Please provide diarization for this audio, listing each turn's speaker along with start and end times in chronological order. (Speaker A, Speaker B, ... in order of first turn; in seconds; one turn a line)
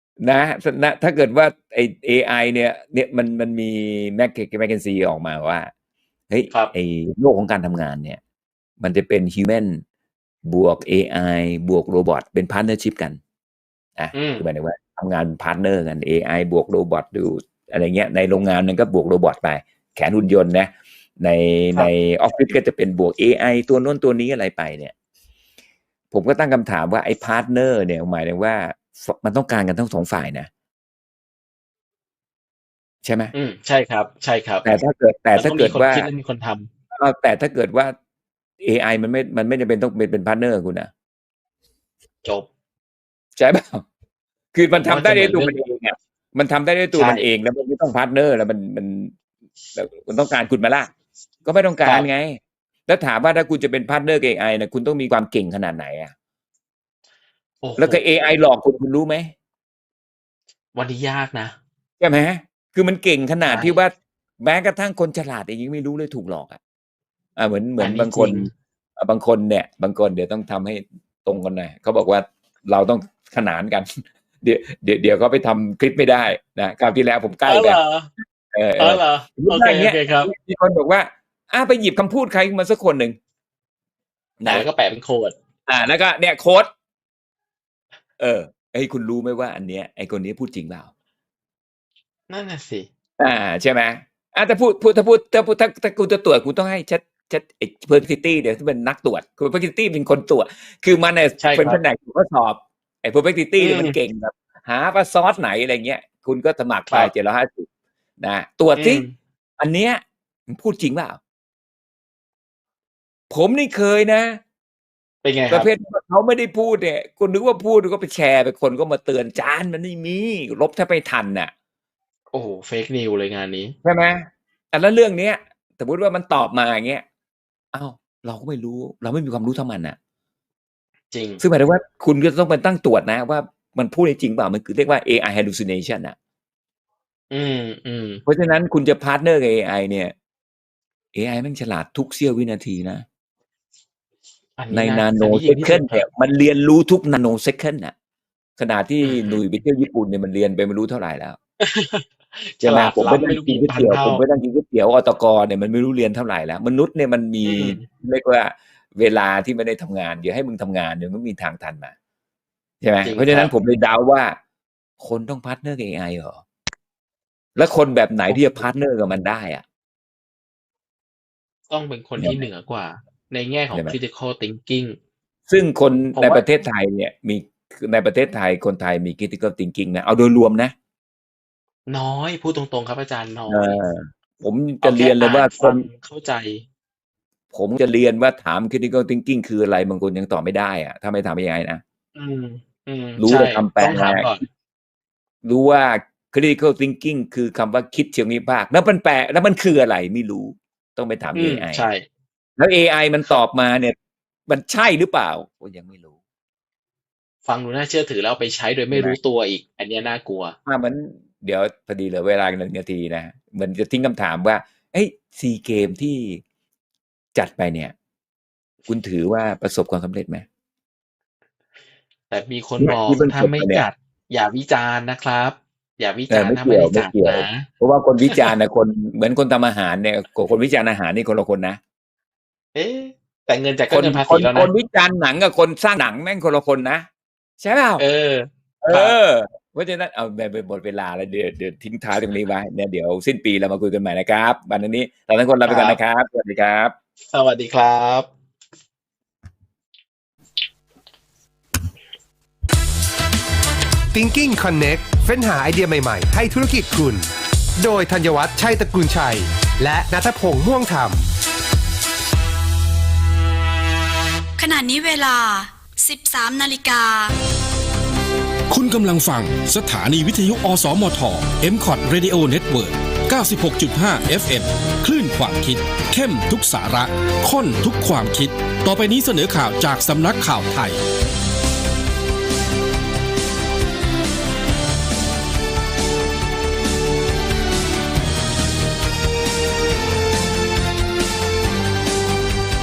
Speaker A: 0.2-5.7
Speaker A: 6.3-8.2
Speaker A: 8.8-9.8
Speaker A: 10.5-13.2
Speaker A: 14.0-24.9
Speaker B: 14.1-14.4
Speaker A: 26.1-30.5
Speaker A: 33.0-33.3
Speaker B: 33.3-34.7
Speaker A: 34.6-36.1
Speaker B: 35.4-36.7
Speaker A: 36.9-38.0
Speaker A: 38.6-40.9
Speaker A: 43.4-43.9
Speaker A: 44.5-49.1
Speaker B: 44.8-45.5
Speaker B: 46.9-47.3
Speaker A: 49.8-50.9
Speaker A: 51.5-56.1
Speaker B: 57.6-58.1
Speaker A: 57.8-59.3
Speaker B: 60.8-61.5
Speaker A: 62.0-66.6
Speaker B: 63.5-63.8
Speaker A: 67.4-77.8
Speaker B: 67.8-68.5
Speaker B: 77.5-78.1
Speaker A: 78.5-83.2
Speaker B: 78.8-80.3
Speaker A: 84.4-84.7
Speaker B: 84.5-85.3
Speaker A: 85.7-86.7
Speaker A: 88.2-90.9
Speaker B: 92.3-92.9
Speaker A: 93.2-107.7
Speaker B: 101.4-101.8
Speaker B: 103.6-104.0
Speaker A: 108.2-109.0
Speaker B: 108.8-109.1
Speaker A: 109.6-111.2
Speaker A: 113.3-114.4
Speaker B: 115.2-115.7
Speaker A: 115.5-121.5
Speaker B: 122.3-123.8
Speaker A: 123.8-127.0
Speaker A: 127.7-130.0
Speaker B: 131.1-131.4
Speaker A: 131.4-136.2
Speaker B: 137.3-138.2
Speaker A: 138.3-140.1
Speaker A: 141.1-143.1
Speaker B: 144.6-146.1
Speaker A: 144.7-147.9
Speaker A: 148.6-151.4
Speaker B: 149.0-149.4
Speaker B: 151.6-154.2
Speaker A: 152.6-161.9
Speaker B: 157.4-157.9
Speaker A: 162.8-164.4
Speaker B: 163.0-163.5
Speaker A: 165.0-166.4
Speaker A: 167.6-169.6
Speaker B: 171.7-175.0
Speaker A: 175.5-180.8
Speaker B: 176.2-176.4
Speaker B: 181.9-183.8
Speaker A: 183.5-185.9
Speaker B: 184.8-186.7
Speaker A: 187.5-191.8
Speaker B: 192.2-194.5
Speaker A: 193.2-194.3
Speaker A: 195.4-201.8
Speaker B: 201.3-202.1
Speaker A: 202.6-204.0
Speaker A: 204.5-206.2
Speaker B: 207.5-210.6
Speaker A: 208.9-209.2
Speaker A: 210.7-216.4
Speaker A: 217.3-217.9
Speaker A: 218.9-220.5
Speaker B: 222.3-227.7
Speaker A: 222.8-223.9
Speaker A: 226.3-231.8
Speaker B: 232.8-234.7
Speaker A: 233.9-237.1
Speaker A: 237.6-238.0
Speaker B: 238.0-239.2
Speaker A: 238.8-246.9
Speaker B: 245.7-246.0
Speaker B: 247.3-248.3
Speaker C: 254.1-261.3
Speaker D: 264.6-267.3
Speaker E: 268.7-281.0